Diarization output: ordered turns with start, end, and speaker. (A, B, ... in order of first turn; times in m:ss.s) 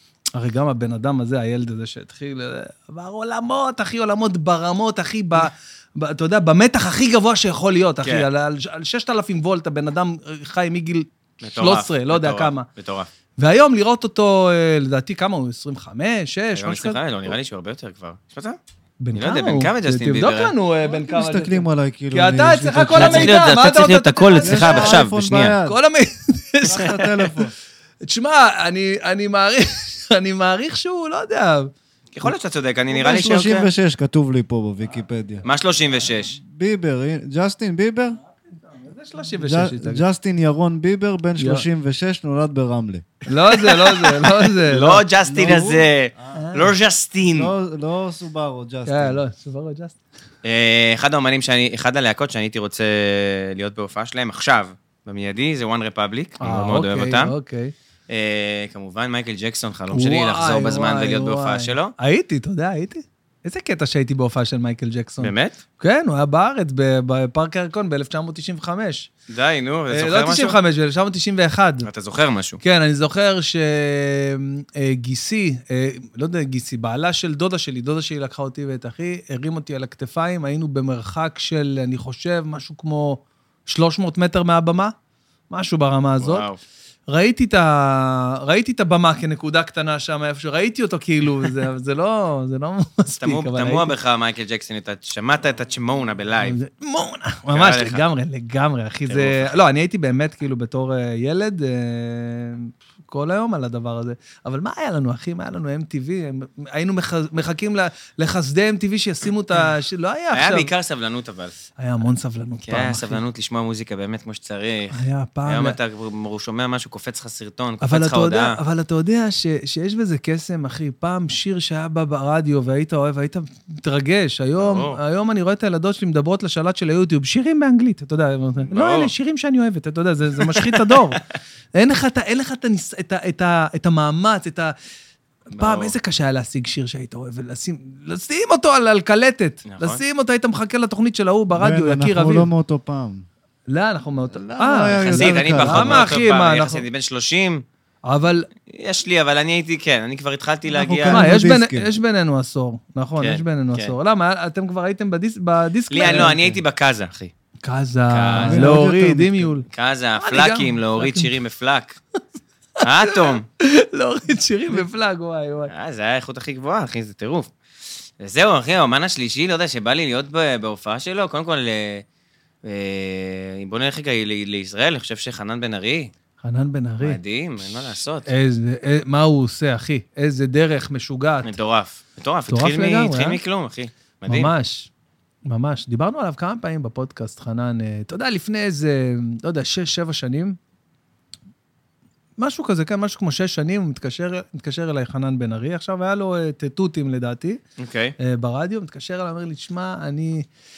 0:00.4-0:12.7 A
0:11.4-0:13.1 B
0:13.4-0:17.3 A
0:16.5-0:18.6 B
0:19.0-0:25.0 A
0:19.2-0:20.5 B
0:20.8-0:23.4 C
0:23.0-0:25.6 B
0:24.4-0:25.8 C
0:25.6-0:27.3 A
0:26.6-0:27.5 C
0:28.0-0:31.7 A
0:32.1-0:33.7 B
0:32.9-0:35.4 C
0:35.4-0:36.4 B
0:36.4-0:38.2 C
0:38.6-0:40.0 A
0:39.4-0:43.1 C
0:41.4-0:41.6 A
0:43.3-0:45.0 A
0:43.8-0:47.5 B
0:45.2-0:45.9 C
0:46.3-0:46.7 A
0:47.3-0:49.2 C
0:48.8-0:50.0 A
0:50.4-0:57.3 B
0:56.4-0:57.7 A
0:58.1-1:01.9 B
0:59.9-1:09.1 A
1:05.2-1:05.6 B
1:09.3-1:10.6 B
1:09.9-1:11.9 A
1:11.8-1:12.6 B
1:12.6-1:24.9 A
1:25.5-1:26.4 A
1:26.2-1:26.6 B
1:27.1-1:33.9 A
1:33.2-1:36.6 B
1:36.4-1:50.7 A
1:37.5-1:38.0 B
1:39.1-1:39.5 B
1:50.3-1:51.5 B
1:51.8-1:53.2 A
1:52.7-1:58.6 B
1:54.9-1:55.8 A
1:57.8-2:11.2 A
2:04.6-2:05.0 B
2:08.7-2:09.1 B
2:10.6-2:11.0 B
2:11.7-2:14.7 A
2:15.5-2:22.5 A
2:15.6-2:15.9 B
2:19.7-2:20.0 B
2:21.6-2:23.2 C
2:23.7-2:26.8 A
2:24.3-2:26.1 C
2:24.9-2:27.6 B
2:28.0-2:28.5 A
2:28.7-2:31.3 B
2:30.7-2:31.9 C
2:31.1-2:36.6 A
2:33.2-2:33.9 B
2:35.9-2:37.3 B
2:37.6-2:39.7 A
2:38.1-2:38.7 B
2:38.4-2:39.5 C
2:39.7-2:42.0 B
2:40.2-2:41.3 A
2:42.8-2:43.4 B
2:43.0-2:45.7 A
2:45.7-2:47.5 B
2:48.2-2:52.0 B
2:52.6-2:56.1 B
2:56.4-2:57.2 A
2:57.0-2:58.3 B
2:58.2-3:01.5 A
3:01.4-3:04.5 B
3:02.5-3:03.4 A
3:04.3-3:04.9 A
3:05.5-3:10.6 A
3:12.4-3:17.6 A
3:17.8-3:18.2 B
3:18.2-3:20.5 A